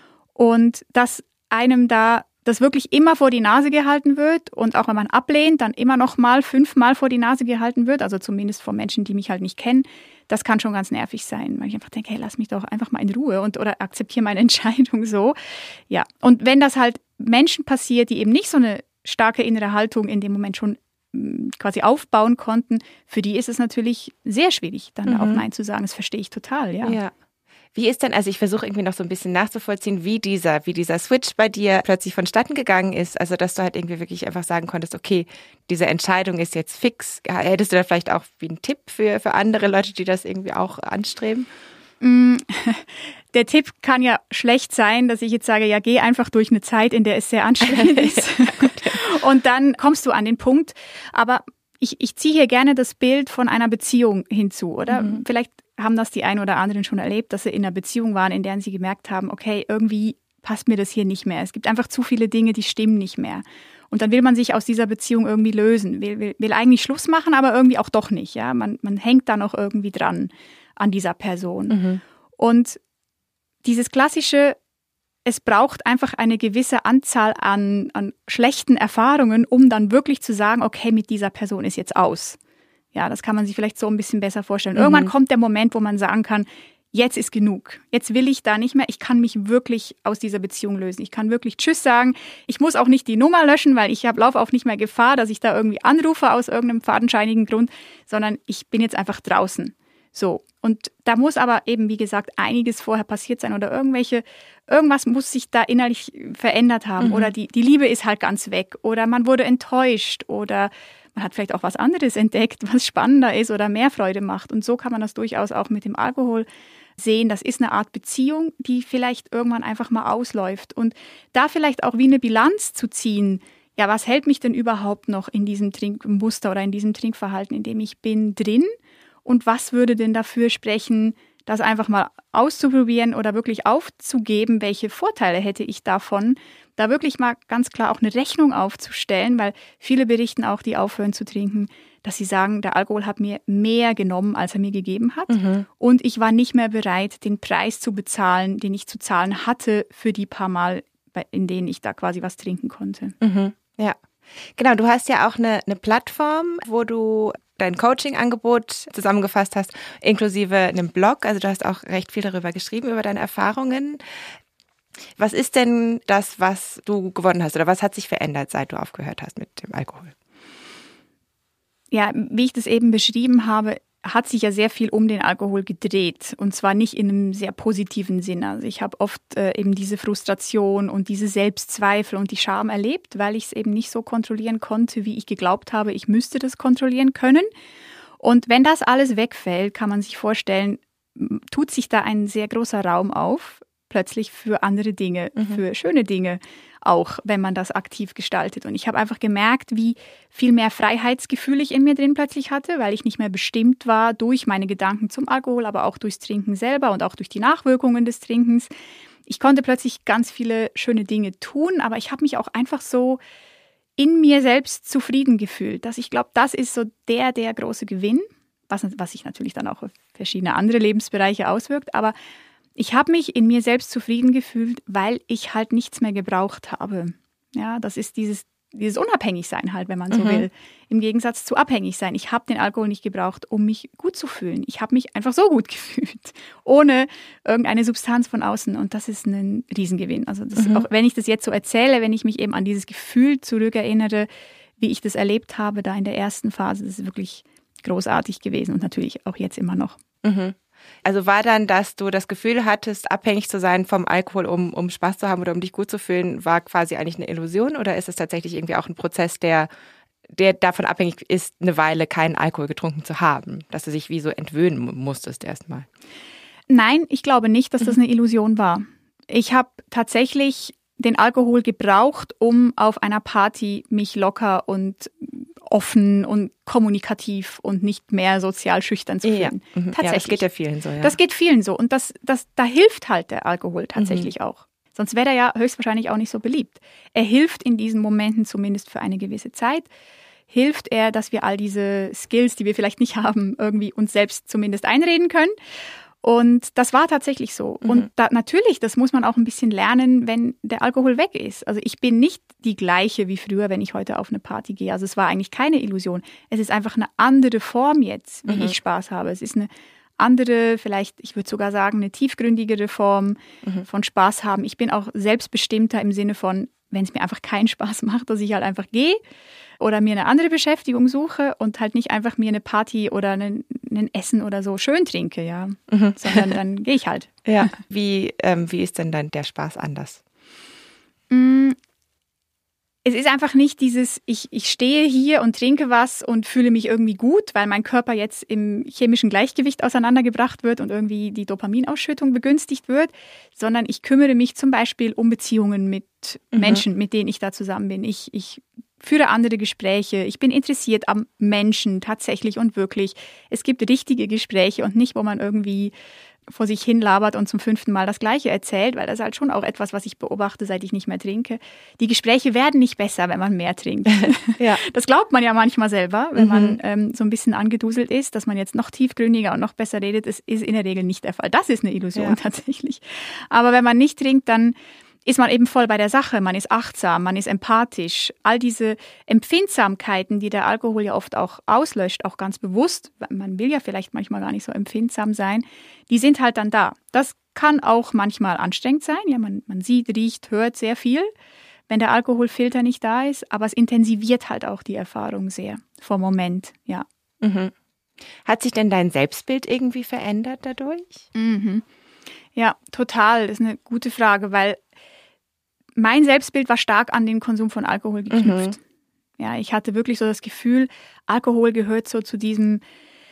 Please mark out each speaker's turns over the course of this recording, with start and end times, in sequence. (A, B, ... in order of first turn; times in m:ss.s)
0:00.4-0:27.0 A
0:25.1-0:25.4 B
0:26.8-0:27.1 B
0:27.7-0:41.5 B
0:42.0-1:11.8 A
0:47.6-0:49.0 B
0:54.9-0:55.2 B
1:11.7-1:12.0 B
1:12.4-1:12.8 A
1:13.6-1:14.6 A
1:15.3-1:22.4 A
1:22.9-1:56.5 A
1:24.8-1:25.1 B
1:47.0-1:47.3 B
1:57.0-2:08.7 A
2:09.2-2:33.2 A
2:25.3-2:25.7 B
2:33.2-2:34.0 B
2:34.6-2:44.0 B
2:45.2-2:50.2 B
2:51.9-3:07.5 A
3:08.2-3:28.7 A
3:29.3-3:33.2 A
3:34.0-3:42.2 A
3:42.8-4:04.3 A
3:50.1-3:50.5 B
4:00.6-4:00.8 B
4:04.8-4:10.0 A
4:10.2-4:19.7 B
4:20.3-4:25.9 B
4:26.7-4:40.4 A
4:39.2-4:41.2 B
4:41.0-4:49.9 A
4:44.0-4:44.3 B
4:50.5-4:55.5 A
4:56.2-5:19.2 A
5:08.5-5:08.8 B
5:19.8-5:27.3 A
5:25.9-5:26.6 B
5:27.4-5:30.2 B
5:31.3-5:31.8 A
5:33.0-5:55.9 A
5:46.5-5:46.8 B
5:56.5-6:31.3 A
6:06.4-6:06.8 B
6:31.9-6:37.1 A
6:37.4-6:37.7 B
6:38.4-6:41.2 B
6:41.3-6:41.8 A
6:42.6-6:44.8 A
6:46.0-6:48.8 A
6:48.3-6:48.8 B
6:49.4-6:52.8 A